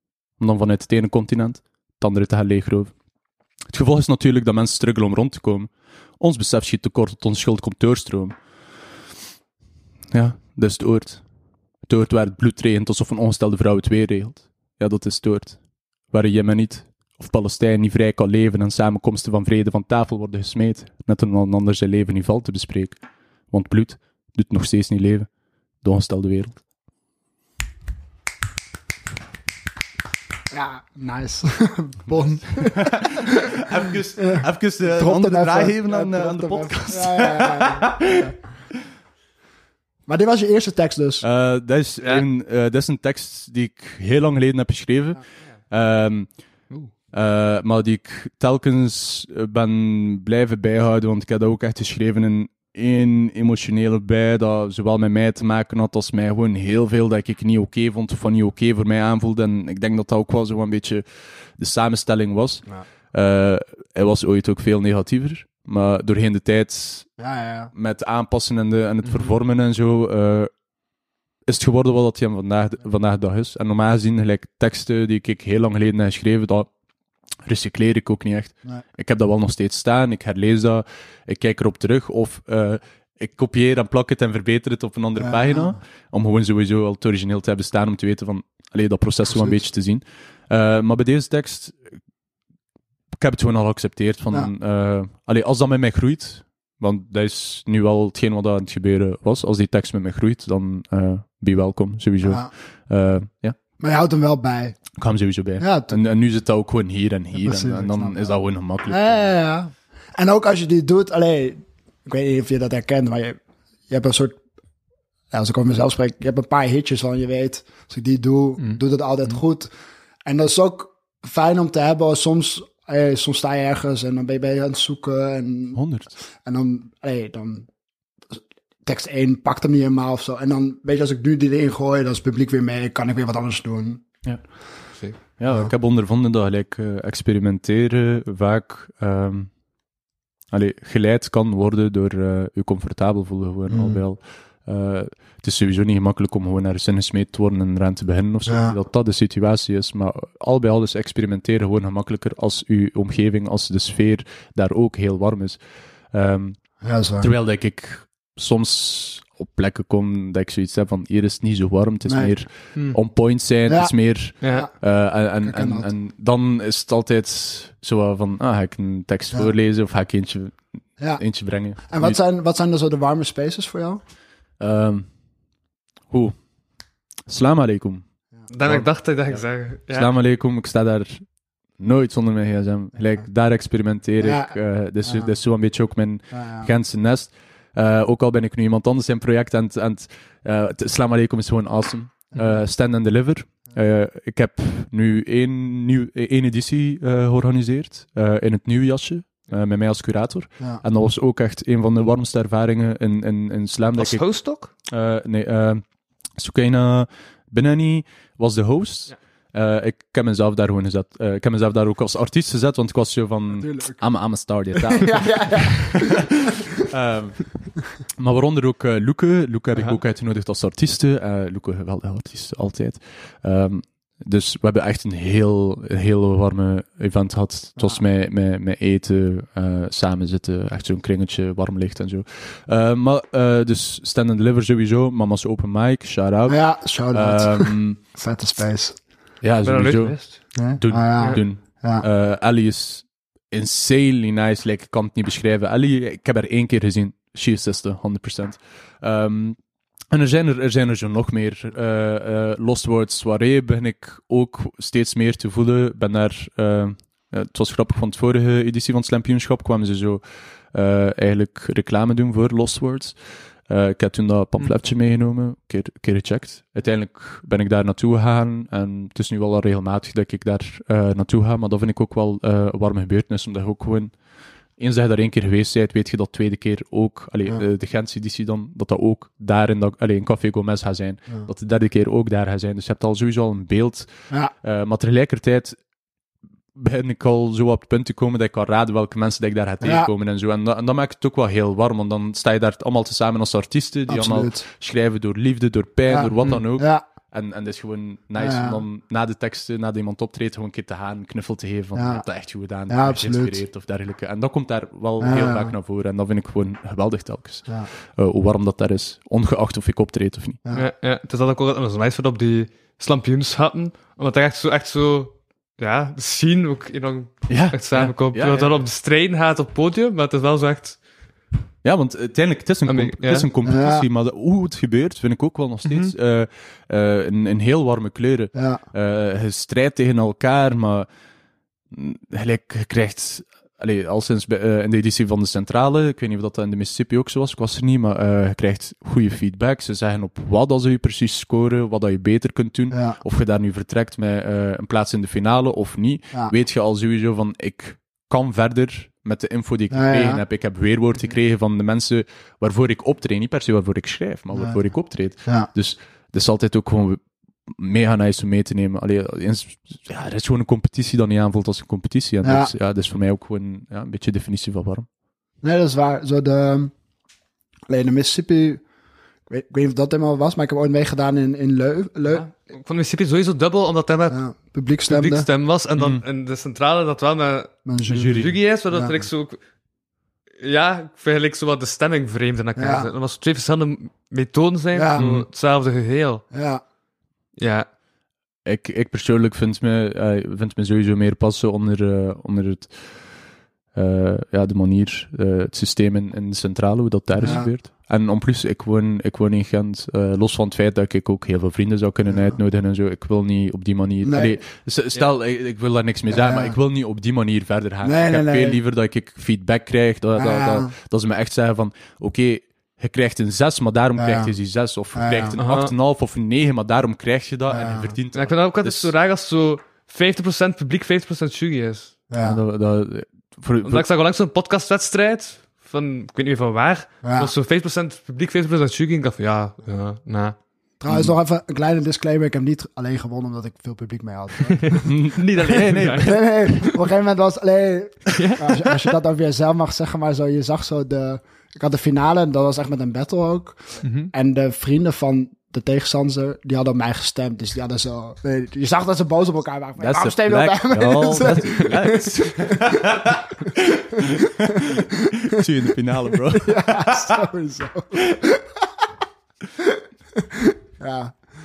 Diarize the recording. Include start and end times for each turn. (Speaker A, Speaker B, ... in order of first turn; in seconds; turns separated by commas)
Speaker A: 0.4-2.9, Speaker A: 3.7-8.4, Speaker A: 10.1-11.2, Speaker A: 11.8-23.0, Speaker A: 23.5-25.3, Speaker A: 25.8-26.6, Speaker B: 30.5-33.6, Speaker A: 32.3-38.3, Speaker B: 34.2-38.4, Speaker B: 40.1-41.2, Speaker A: 41.2-46.6, Speaker A: 47.1-67.1, Speaker B: 67.2-67.7, Speaker A: 67.7-70.5, Speaker A: 71.5-76.7, Speaker A: 77.4-92.0, Speaker B: 85.2-85.8, Speaker B: 89.3-89.6, Speaker A: 93.1-103.6, Speaker B: 102.2-102.5, Speaker B: 103.8-104.8, Speaker A: 105.0-109.3, Speaker B: 105.6-106.0, Speaker B: 107.4-113.4, Speaker B: 113.9-114.4, Speaker B: 115.3-119.7, Speaker C: 118.6-119.4, Speaker B: 120.2-125.8, Speaker A: 125.7-126.2, Speaker B: 126.4-127.7, Speaker B: 128.3-134.0, Speaker A: 135.2-139.5, Speaker A: 140.5-172.2, Speaker B: 143.7-144.0, Speaker B: 148.5-148.8, Speaker B: 156.8-157.3, Speaker B: 162.1-162.3, Speaker B: 163.7-165.9, Speaker C: 164.4-164.7, Speaker B: 171.0-174.0, Speaker A: 174.6-175.1, Speaker A: 176.1-176.4, Speaker A: 177.3-178.1, Speaker C: 178.5-180.1, Speaker A: 178.6-238.0, Speaker B: 184.2-185.4, Speaker B: 186.3-186.7, Speaker B: 192.3-192.6, Speaker C: 204.0-204.7, Speaker B: 213.5-216.2, Speaker B: 236.5-239.0, Speaker A: 239.4-249.6, Speaker C: 239.7-240.5, Speaker B: 240.6-242.1, Speaker A: 250.1-274.2, Speaker A: 274.8-285.8, Speaker A: 286.8-310.6, Speaker B: 289.8-290.1, Speaker B: 294.1-294.7, Speaker B: 296.1-297.1, Speaker B: 298.4-298.8, Speaker B: 301.9-303.6, Speaker B: 305.2-305.7, Speaker C: 310.8-321.0, Speaker A: 317.5-318.7, Speaker A: 321.8-331.1, Speaker C: 322.9-323.5, Speaker B: 323.6-324.1, Speaker C: 325.9-326.1, Speaker B: 328.6-328.8, Speaker A: 331.9-365.1, Speaker B: 342.9-343.2, Speaker B: 349.9-350.4, Speaker B: 354.5-355.7, Speaker B: 362.4-362.7, Speaker B: 365.6-366.9, Speaker B: 367.9-368.8, Speaker B: 369.5-372.5, Speaker C: 372.3-374.4, Speaker B: 374.3-375.5, Speaker C: 375.1-379.6, Speaker A: 376.0-376.2, Speaker B: 377.9-379.1, Speaker A: 378.1-378.6, Speaker C: 380.6-386.4, Speaker B: 382.8-383.1, Speaker B: 384.9-385.3, Speaker A: 385.2-385.5, Speaker B: 386.5-386.8, Speaker C: 387.6-387.9, Speaker A: 388.6-393.3, Speaker A: 393.9-419.1, Speaker B: 397.4-397.7, Speaker B: 402.3-402.6, Speaker B: 404.2-404.6, Speaker B: 406.3-406.8, Speaker B: 408.0-408.8, Speaker B: 410.4-410.9, Speaker B: 414.2-414.5, Speaker B: 415.1-415.6, Speaker C: 415.6-415.9, Speaker B: 417.7-418.1, Speaker C: 418.3-422.1, Speaker B: 422.3-422.6, Speaker A: 422.4-424.1, Speaker C: 423.8-430.6, Speaker B: 427.2-427.5, Speaker B: 431.0-435.1, Speaker A: 431.1-431.4, Speaker A: 435.1-436.5, Speaker C: 435.2-436.9, Speaker B: 436.2-453.1, Speaker C: 438.3-438.8, Speaker C: 444.0-444.3, Speaker A: 450.0-457.4, Speaker B: 454.2-455.0, Speaker B: 456.6-458.8, Speaker B: 459.8-461.4